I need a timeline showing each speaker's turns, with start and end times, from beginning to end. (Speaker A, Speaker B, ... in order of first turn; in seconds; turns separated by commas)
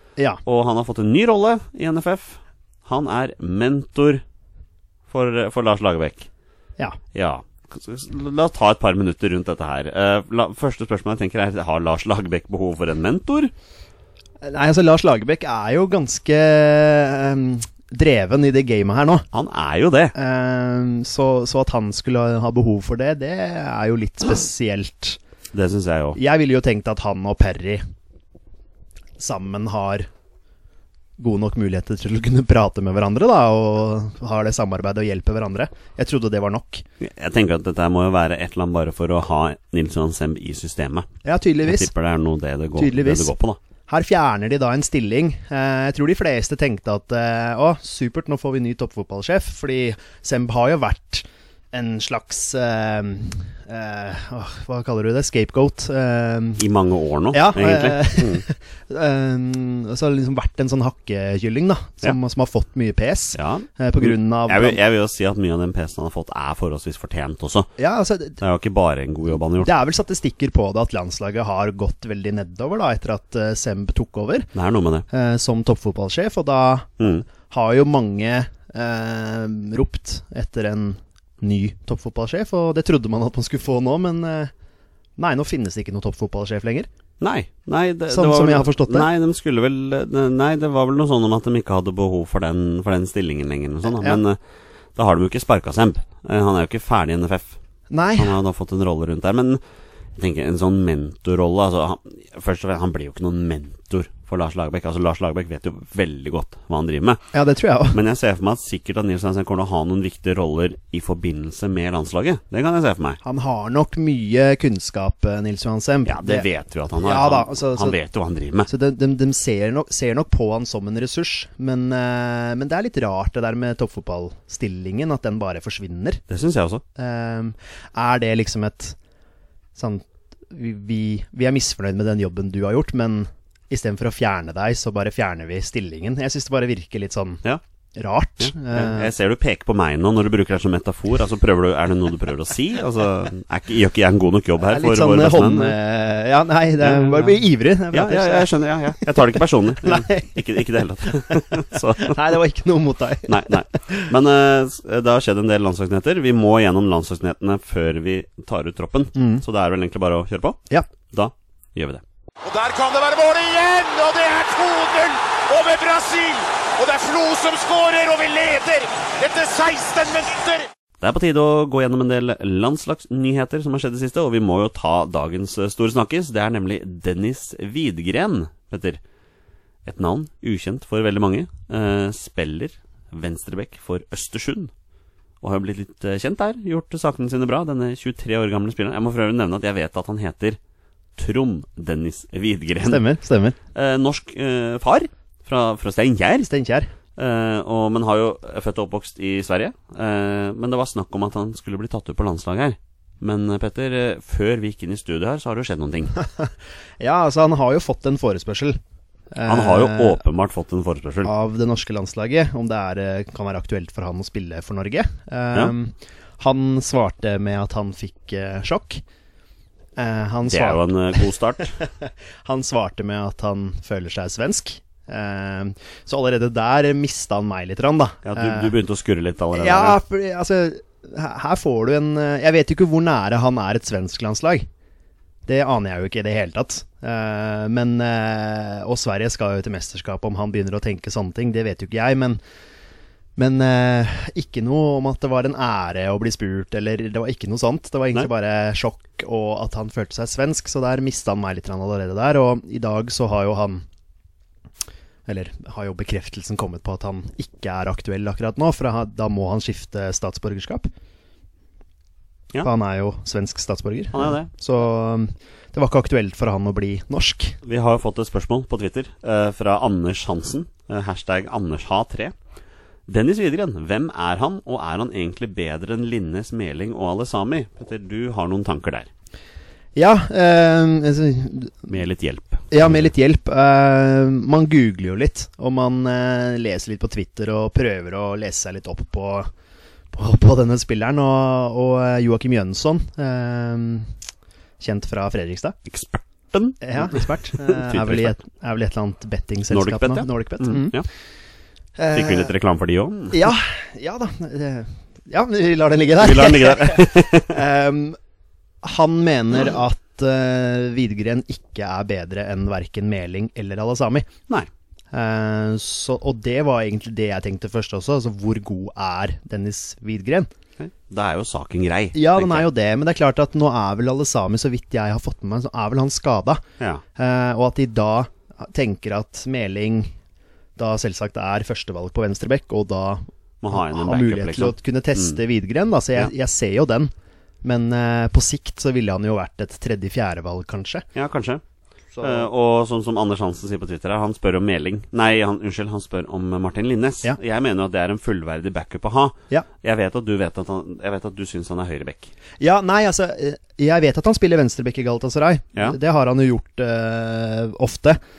Speaker A: 0.4-4.2, Speaker A: 5.1-6.3, Speaker A: 7.1-13.5, Speaker B: 14.4-19.2, Speaker A: 19.3-20.1, Speaker B: 20.1-25.2, Speaker A: 25.5-26.2, Speaker B: 26.1-27.8, Speaker B: 29.2-30.1, Speaker B: 31.2-36.8, Speaker A: 37.0-41.1, Speaker B: 41.2-41.9, Speaker A: 41.6-43.6, Speaker B: 42.8-43.3, Speaker B: 43.9-56.6, Speaker A: 56.6-58.5, Speaker B: 57.3-64.8, Speaker A: 63.3-67.7, Speaker B: 67.8-68.4, Speaker A: 68.4-69.7, Speaker B: 69.6-74.5, Speaker A: 74.5-75.0, Speaker B: 75.1-84.5, Speaker B: 85.2-86.9, Speaker A: 87.2-94.4, Speaker B: 88.1-89.1, Speaker B: 93.8-94.2, Speaker A: 94.9-97.5, Speaker B: 97.9-98.4, Speaker A: 98.2-99.6, Speaker A: 100.2-107.2, Speaker B: 107.3-108.0, Speaker A: 107.9-113.2, Speaker B: 113.2-116.5, Speaker A: 116.0-118.7, Speaker B: 117.0-118.0, Speaker B: 118.7-126.2, Speaker A: 126.3-126.8, Speaker B: 127.0-129.0, Speaker B: 129.7-137.4, Speaker B: 137.9-139.1, Speaker A: 138.4-145.8, Speaker B: 144.6-150.7, Speaker A: 146.8-152.4, Speaker B: 151.2-154.1, Speaker A: 153.3-162.0, Speaker B: 159.1-159.4, Speaker C: 162.4-170.7, Speaker A: 171.0-179.0, Speaker A: 179.8-184.7, Speaker A: 185.4-190.6, Speaker A: 191.2-193.0, Speaker B: 192.8-193.6, Speaker A: 193.7-196.5, Speaker B: 196.4-196.9, Speaker A: 197.2-206.1, Speaker B: 206.2-208.8, Speaker B: 209.3-210.2, Speaker A: 209.4-211.3, Speaker B: 211.2-219.0, Speaker B: 220.0-228.7, Speaker A: 220.5-221.7, Speaker A: 228.2-230.0, Speaker B: 229.5-234.7, Speaker B: 235.5-242.4, Speaker B: 243.3-253.8, Speaker B: 255.3-260.9, Speaker B: 262.6-267.6, Speaker A: 264.1-264.5, Speaker A: 267.6-272.3, Speaker A: 273.1-279.1, Speaker B: 279.9-281.9, Speaker A: 281.9-283.1, Speaker B: 282.7-289.5, Speaker B: 290.1-294.1, Speaker B: 294.8-295.8, Speaker A: 295.9-298.4, Speaker B: 296.8-301.0, Speaker A: 299.7-301.1, Speaker B: 302.0-302.5, Speaker A: 302.1-303.4, Speaker B: 303.3-308.2, Speaker A: 306.2-307.6, Speaker B: 308.8-314.3, Speaker B: 315.1-320.5, Speaker A: 320.8-322.7, Speaker B: 322.1-326.6, Speaker B: 327.2-330.1, Speaker B: 330.8-337.1, Speaker A: 333.6-335.4, Speaker B: 337.6-341.0, Speaker A: 341.1-341.6, Speaker B: 342.1-342.5, Speaker A: 342.2-352.3, Speaker B: 352.6-358.2